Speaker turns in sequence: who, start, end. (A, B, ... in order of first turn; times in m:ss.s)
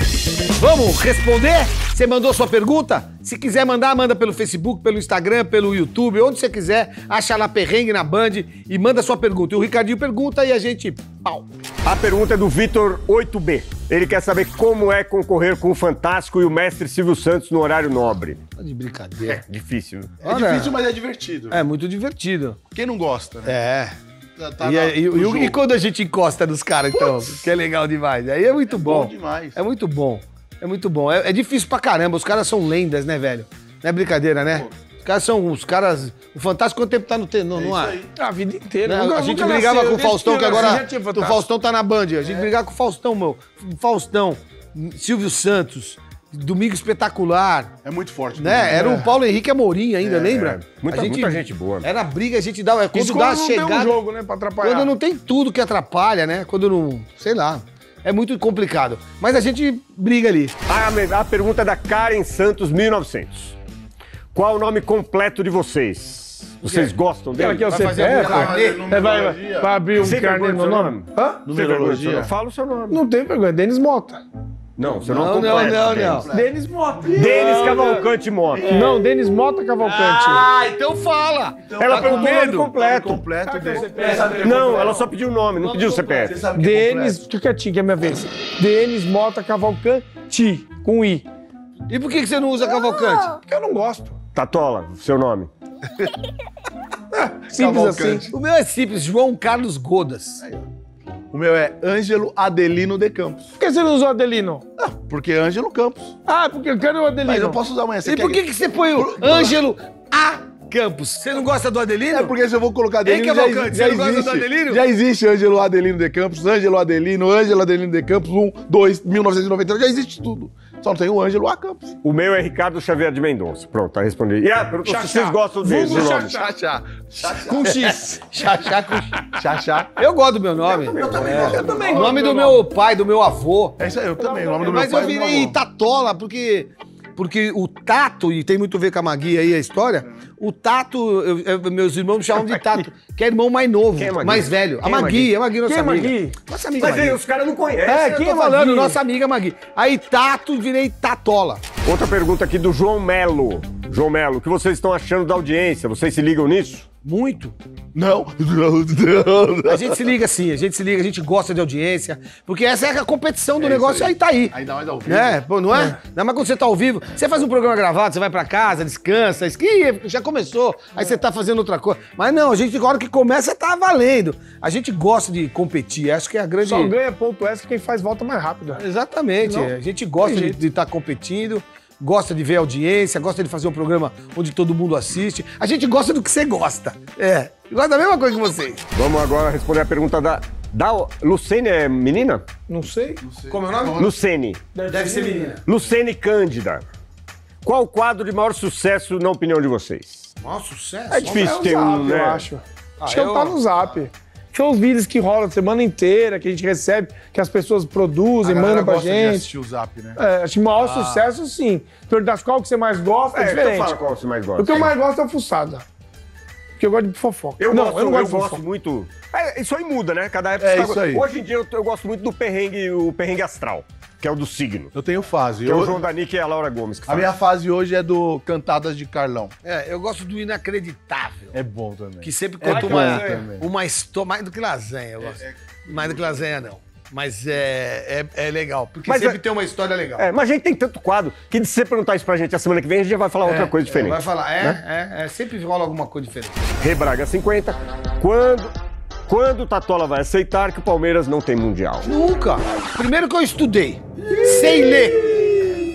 0:00.6-0:11.4 A
0:11.8-0:18.4 B
0:18.6-0:19.4 A
0:19.2-0:20.2 B
0:20.2-0:21.6 C
0:20.2-0:20.8 A
0:21.5-0:22.6 A
0:22.7-0:23.6 C
0:23.4-0:24.0 A
0:24.4-0:25.6 C
0:24.6-0:38.0 A
0:28.7-0:29.6 C
0:37.5-0:38.1 C
0:38.2-0:41.4 D
0:38.8-0:47.7 A
0:42.2-0:42.5 C
0:47.8-0:49.0 C
0:48.4-0:54.0 A
0:48.7-0:49.1 D
0:50.0-0:50.4 C
0:50.2-0:51.9 B
0:52.9-0:54.9 D
0:54.6-1:00.6 A
1:00.6-1:03.6 B
1:04.3-1:07.7 B
1:06.6-1:06.9 A
1:07.4-1:11.4 D
1:07.6-1:08.9 A
1:08.0-1:09.7 C
1:10.0-1:13.0 B
1:11.4-1:12.3 C
1:12.9-1:14.2 D
1:14.8-1:16.3 B
1:15.0-1:16.3 A
1:15.2-1:16.6 C
1:16.3-1:17.9 D
1:17.1-1:18.7 B
1:17.2-1:17.7 C
1:17.3-1:18.0 A
1:18.5-1:19.1 C
1:18.7-1:20.5 D
1:20.0-1:22.7 A
1:21.6-1:25.0 C
1:21.8-1:23.2 B
1:23.4-1:25.0 D
1:24.3-1:26.3 B
1:25.6-1:26.3 A
1:26.2-1:27.2 C
1:26.5-1:31.2 D
1:31.9-1:33.4 A
1:33.4-1:34.1 D
1:34.3-1:35.5 B
1:37.1-1:38.3 D
1:37.5-1:38.3 C
1:38.3-1:40.4 A
1:40.4-1:40.7 C
1:41.3-1:43.5 C
1:43.6-1:44.6 D
1:44.8-1:46.1 C
1:46.2-1:47.6 D
1:47.2-1:49.6 C
1:48.0-1:52.3 A
1:52.1-2:01.9 C
1:53.0-1:54.8 A
2:02.0-2:06.4 B
2:04.8-2:06.5 D
2:05.8-2:07.8 C
2:07.3-2:08.2 D
2:07.6-2:09.2 A
2:09.3-2:10.0 C
2:10.0-2:13.8 A
2:10.8-2:11.9 B
2:10.8-2:12.3 C
2:11.1-2:12.6 D
2:13.8-2:15.6 C
2:14.2-2:14.7 D
2:14.6-2:27.2 A
2:22.5-2:22.8 D
2:24.0-2:25.3 B
2:25.6-2:26.3 D
2:26.8-2:28.1 B
2:27.8-2:29.0 D
2:27.9-2:31.6 A
2:31.8-2:36.8 B
2:37.0-2:37.6 A
2:37.9-2:40.0 C
2:39.7-2:44.5 A
2:43.6-2:45.4 C
2:45.0-2:56.9 A
2:56.6-2:58.8 D
2:58.7-3:08.8 A
2:59.4-3:00.6 D
3:08.9-3:12.4 B
3:12.7-3:13.2 D
3:13.2-3:14.1 C
3:13.5-3:14.0 A
3:14.0-3:14.6 B
3:14.7-3:15.6 D
3:14.9-3:15.6 A
3:15.6-3:16.8 B
3:17.6-3:20.3 B
3:20.4-3:21.7 A
3:21.1-3:29.5 D
3:21.2-3:22.5 B
3:23.0-3:24.0 A
3:28.4-3:30.2 C
3:30.2-3:34.0 D
3:30.8-3:31.3 C
3:33.3-3:34.9 B
3:34.6-3:35.8 D
3:36.8-3:38.6 D
3:37.6-3:44.9 B
3:40.6-3:41.2 C
3:44.9-3:46.0 C
3:45.6-3:47.3 B
3:47.0-3:49.5 C
3:49.6-3:51.5 A
3:51.5-3:53.7 C
3:52.2-4:00.3 A
3:52.7-3:53.4 D
3:55.2-3:56.4 C
3:59.0-3:59.4 B
4:00.2-4:04.8 B
4:03.4-4:06.6 A
4:06.8-4:08.7 B
4:09.3-4:12.1 B
4:12.0-4:15.4 A
4:14.2-4:15.8 C